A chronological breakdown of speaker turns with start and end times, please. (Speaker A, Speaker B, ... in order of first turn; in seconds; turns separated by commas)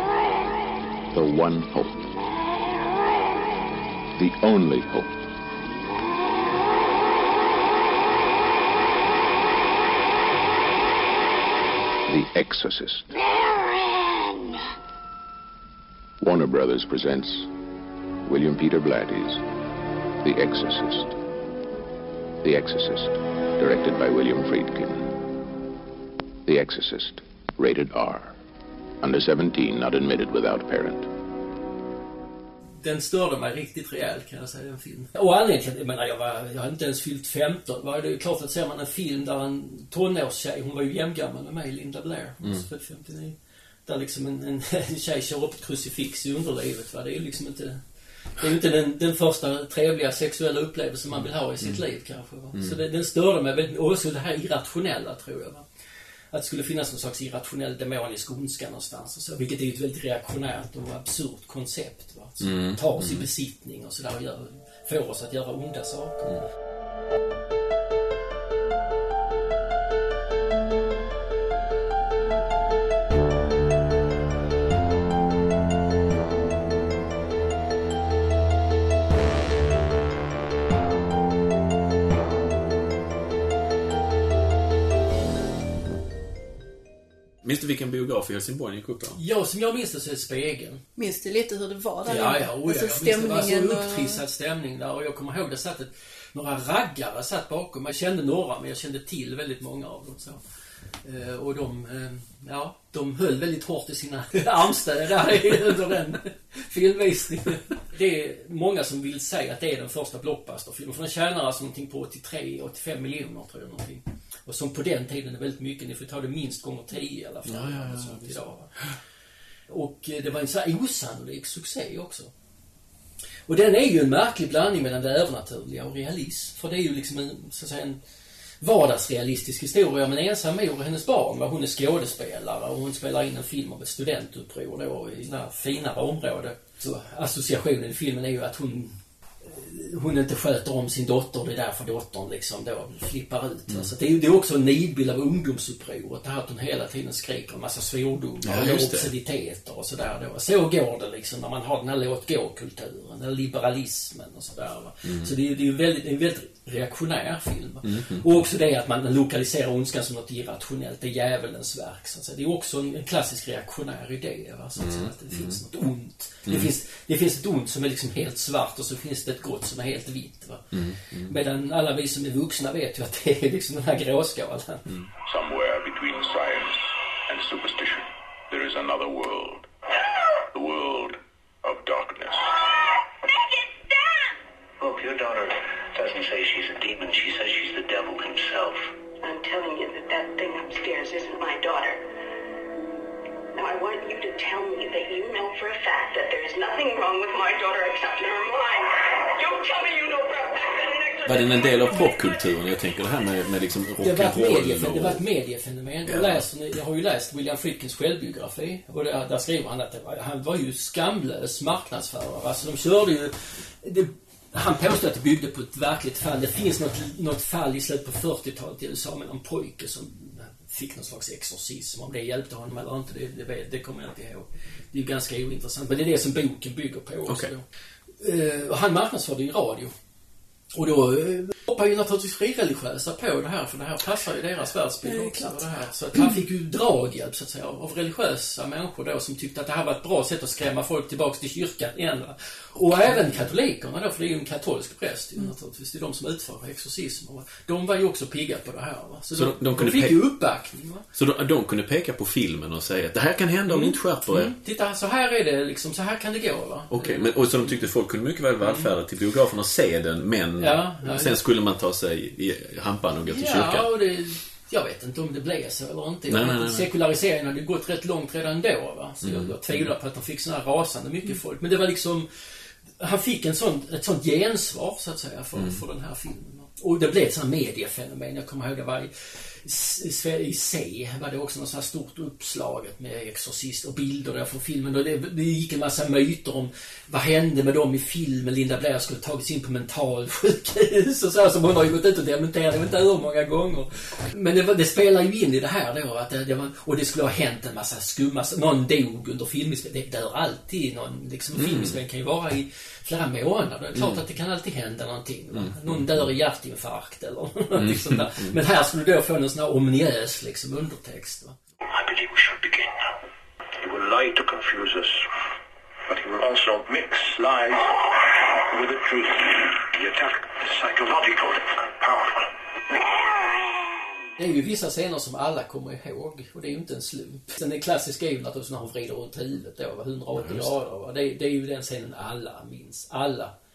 Speaker A: 1.1-2.1, Speaker A: 4.2-5.2, Speaker A: 12.1-13.0, Speaker A: 16.2-17.5, Speaker A: 18.2-19.4, Speaker A: 20.2-21.2, Speaker A: 22.4-25.1, Speaker A: 26.4-28.4, Speaker A: 29.0-31.1, Speaker B: 32.8-55.6, Speaker B: 56.3-66.4, Speaker C: 62.4-63.2, Speaker C: 87.4-89.2, Speaker B: 89.1-90.8, Speaker D: 91.0-94.2, Speaker B: 92.0-100.4, Speaker B: 101.0-118.7, Speaker C: 117.5-119.0, Speaker B: 119.7-122.3, Speaker B: 123.5-128.0, Speaker B: 128.6-174.9, Speaker C: 148.4-149.1, Speaker C: 155.1-155.3, Speaker C: 157.8-158.3, Speaker C: 164.8-165.6, Speaker C: 170.7-171.3, Speaker A: 175.2-179.7, Speaker A: 180.4-182.5, Speaker E: 184.8-188.9, Speaker F: 189.2-192.0, Speaker F: 193.5-201.7, Speaker C: 201.2-205.2, Speaker B: 204.0-227.6, Speaker C: 206.1-206.4, Speaker B: 228.2-229.9, Speaker B: 230.7-251.1, Speaker D: 235.0-235.6, Speaker C: 249.3-250.2, Speaker C: 251.1-254.5, Speaker B: 253.7-257.2, Speaker C: 256.9-263.9, Speaker B: 258.6-258.9, Speaker B: 260.6-261.4, Speaker B: 263.2-311.6, Speaker C: 266.3-266.9, Speaker C: 269.2-269.9, Speaker C: 275.6-275.8, Speaker C: 301.5-302.0, Speaker C: 303.9-304.2, Speaker C: 305.5-306.2, Speaker C: 307.7-308.6, Speaker E: 318.8-319.2, Speaker E: 320.0-321.4, Speaker B: 324.4-333.5, Speaker C: 330.4-330.7